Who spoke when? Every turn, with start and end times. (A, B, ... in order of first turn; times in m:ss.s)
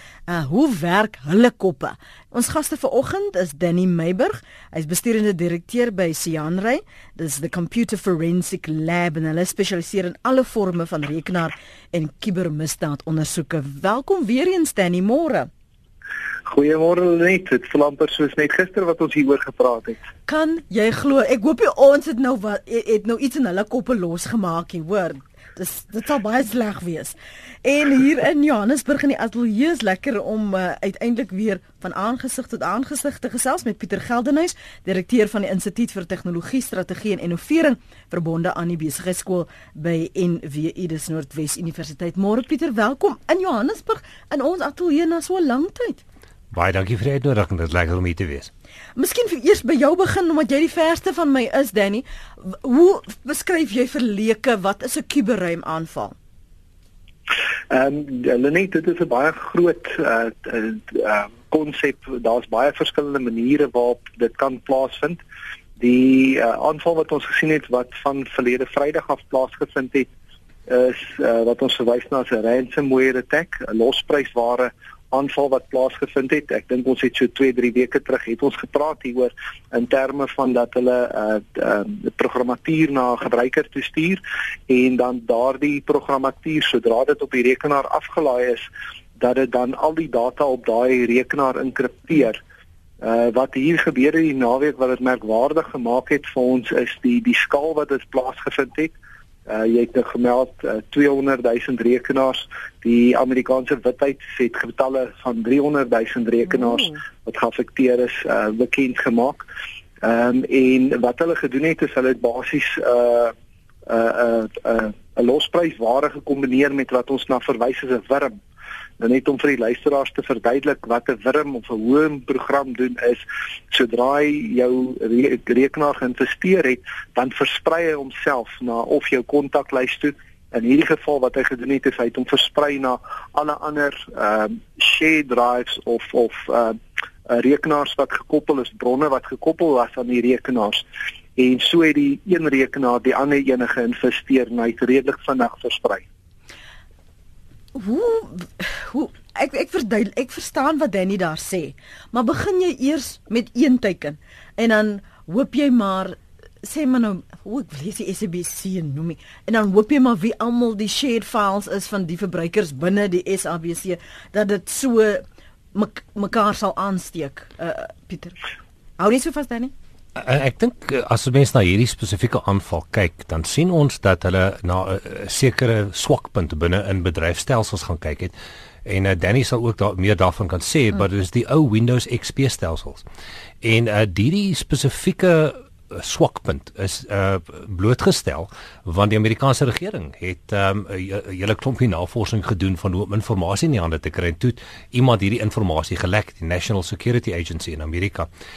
0:00.3-0:15.5 A
0:16.5-0:20.0 B
0:20.3-0:46.0 A
0:46.5-0:48.5 C
0:49.0-0:56.2 A
0:57.7-1:05.2 B
1:05.8-1:10.1 B
1:10.7-1:32.4 B
1:33.0-1:39.0 B
1:39.5-1:49.5 B
1:50.0-1:53.3 B
1:53.9-1:58.4 B
1:59.0-2:26.1 B
2:27.8-2:48.4 A
2:49.0-2:49.7 A
2:50.2-2:58.3 C
2:58.8-3:03.0 C
3:03.6-3:18.3 C